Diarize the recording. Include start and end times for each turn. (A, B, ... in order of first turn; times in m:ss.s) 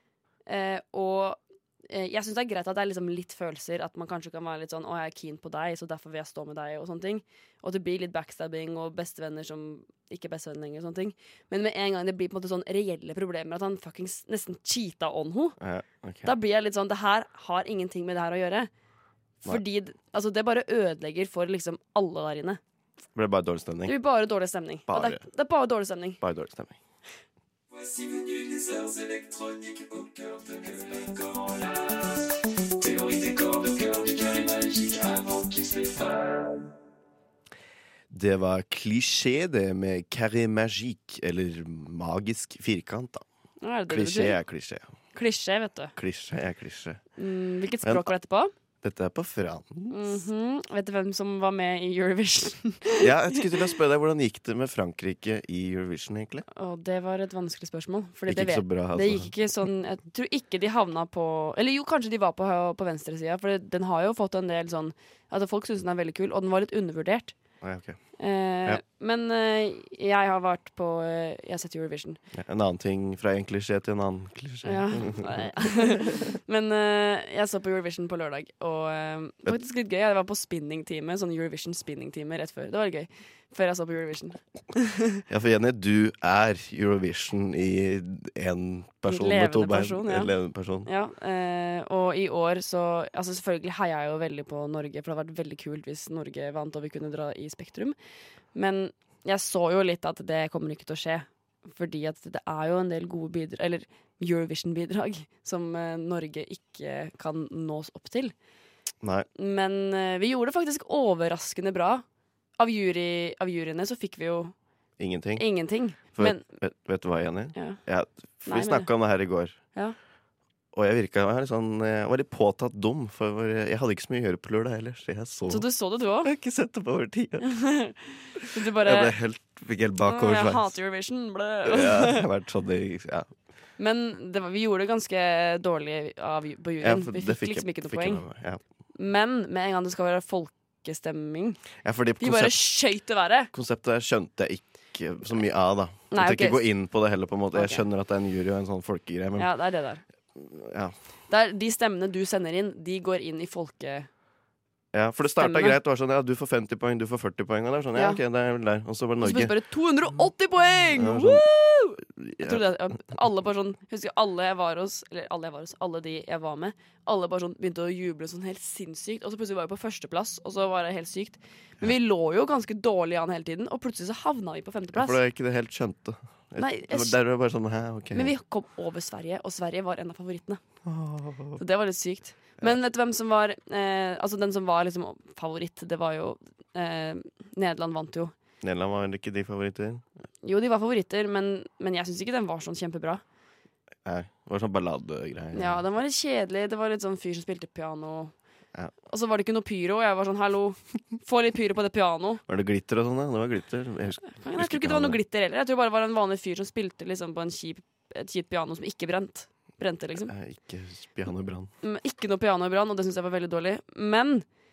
0:00.5-0:15.6 A
0:15.6-0:16.3 B
0:16.2-0:18.7 A
0:19.4-0:22.6 A
0:23.1-0:23.9 B
0:23.8-0:26.2 A
0:24.9-0:25.2 B
0:26.2-0:26.8 B
0:28.5-0:28.9 B
0:30.6-0:31.1 B
0:34.6-0:35.2 B
0:38.1-0:43.2 B
0:43.6-0:44.4 A
0:43.9-0:44.8 B
0:45.1-0:45.9 A
0:46.0-0:47.0 B
0:47.2-0:48.5 A
0:47.8-0:48.1 B
0:48.8-0:50.1 B
0:49.9-0:53.5 A
0:53.0-0:56.4 B
0:56.5-1:07.4 A
0:58.2-0:59.3 B
1:07.6-1:08.0 B
1:08.2-1:12.2 A
1:12.3-1:16.3 B
1:14.6-1:25.2 A
1:25.3-1:30.9 B
1:29.0-1:30.3 A
1:30.8-1:38.0 A
1:38.5-1:48.3 A
1:49.0-1:49.3 B
1:49.4-1:52.0 A
1:52.6-1:54.5 A
1:55.0-1:55.4 B
1:55.4-1:56.4 A
1:56.1-1:59.6 B
1:58.4-1:58.9 A
2:00.7-2:05.7 B
2:05.5-2:06.3 A
2:06.2-2:07.5 B
2:07.4-2:09.1 A
2:08.4-2:10.7 B
2:10.0-2:12.2 A
2:11.6-2:13.3 B
2:13.8-2:18.2 A
2:16.8-2:18.6 B
2:19.0-2:21.6 A
2:21.8-2:22.6 B
2:22.2-2:23.5 A
2:23.5-2:29.5 B
2:26.1-2:26.7 A
2:27.5-2:27.8 A
2:29.4-2:30.0 A
2:30.4-2:30.9 B
2:31.3-2:34.1 A
2:34.9-2:39.6 B
2:35.4-2:35.8 A
2:37.9-2:38.2 A
2:39.2-2:55.2 A
2:40.9-2:41.4 B
2:42.2-2:42.7 B
2:54.9-2:58.3 B
2:56.6-2:57.2 A
2:58.1-3:00.6 A
3:00.8-3:01.6 B
3:01.6-3:08.3 A
3:08.6-3:10.0 B
3:10.4-3:13.2 A
3:14.0-3:15.8 B
3:15.5-3:18.3 A
3:19.1-3:22.4 A
3:22.5-3:25.2 B
3:24.2-3:30.3 A
3:30.3-3:31.7 B
3:31.8-3:34.4 A